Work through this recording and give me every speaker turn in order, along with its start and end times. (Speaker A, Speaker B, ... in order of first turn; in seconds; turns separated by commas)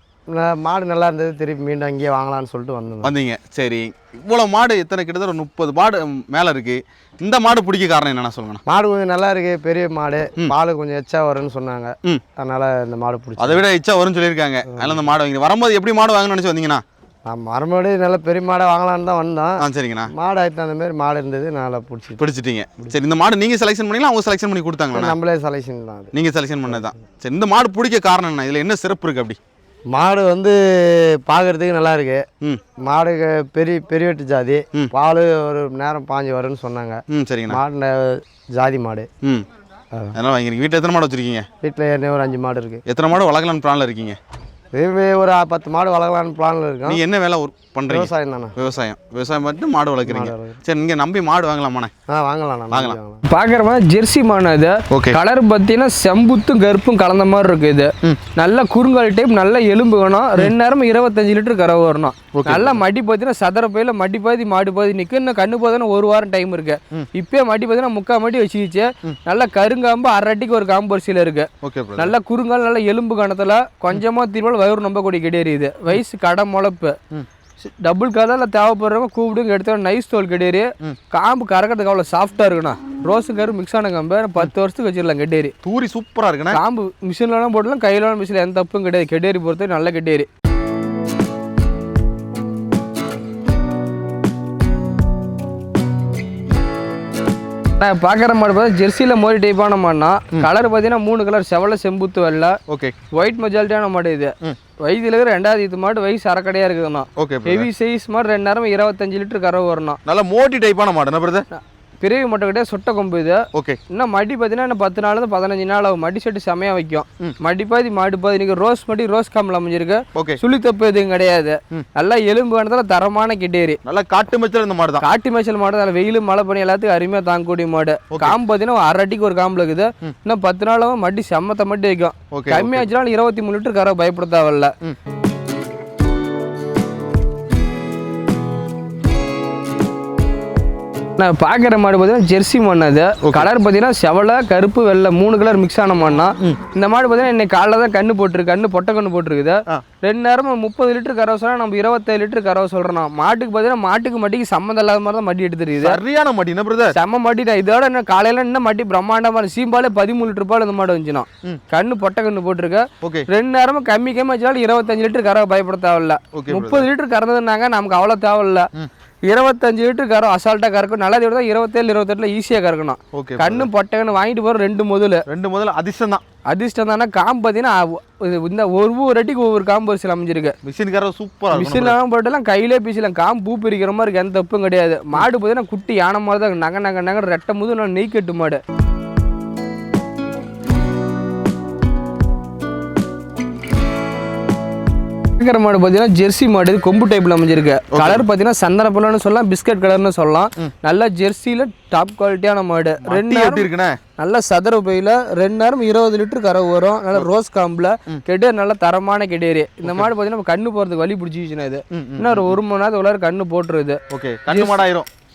Speaker A: 0.3-3.1, Speaker B: 3.0-8.6, Speaker A: 8.7-13.6, Speaker B: 13.4-16.8, Speaker A: 14.7-15.1, Speaker A: 17.3-22.2, Speaker B: 19.6-20.1, Speaker B: 22.2-25.2, Speaker A: 24.9-26.1, Speaker B: 26.1-29.4, Speaker A: 29.9-32.2, Speaker A: 32.8-39.1, Speaker B: 37.1-37.6, Speaker B: 40.1-41.5, Speaker A: 41.6-42.8, Speaker B: 42.9-44.2, Speaker A: 44.7-47.0, Speaker B: 46.9-51.9, Speaker A: 47.9-48.5, Speaker A: 50.0-50.6, Speaker A: 52.1-53.2, Speaker B: 52.7-53.0, Speaker C: 53.3-76.9, Speaker B: 54.9-55.2, Speaker B: 62.3-62.8, Speaker B: 71.6-72.1, Speaker C: 77.7-85.5, Speaker B: 85.6-86.6, Speaker C: 86.5-90.3, Speaker C: 97.8-102.5, Speaker B: 102.7-102.9, Speaker C: 103.1-110.0, Speaker B: 107.2-107.7, Speaker B: 110.0-111.5, Speaker C: 111.5-123.8, Speaker B: 113.5-113.8, Speaker B: 123.8-125.0, Speaker C: 125.0-134.7, Speaker B: 128.1-128.3, Speaker B: 132.3-132.8, Speaker C: 141.2-156.0, Speaker B: 155.8-156.9, Speaker C: 156.9-168.7, Speaker B: 166.3-166.8, Speaker C: 169.2-175.2, Speaker B: 173.1-173.7, Speaker B: 175.3-176.2, Speaker C: 176.5-180.5, Speaker B: 180.6-181.9, Speaker C: 181.5-188.6, Speaker C: 195.4-203.7, Speaker B: 197.9-198.2, Speaker B: 203.1-204.0, Speaker C: 204.2-214.8, Speaker B: 211.9-212.6, Speaker B: 214.1-215.1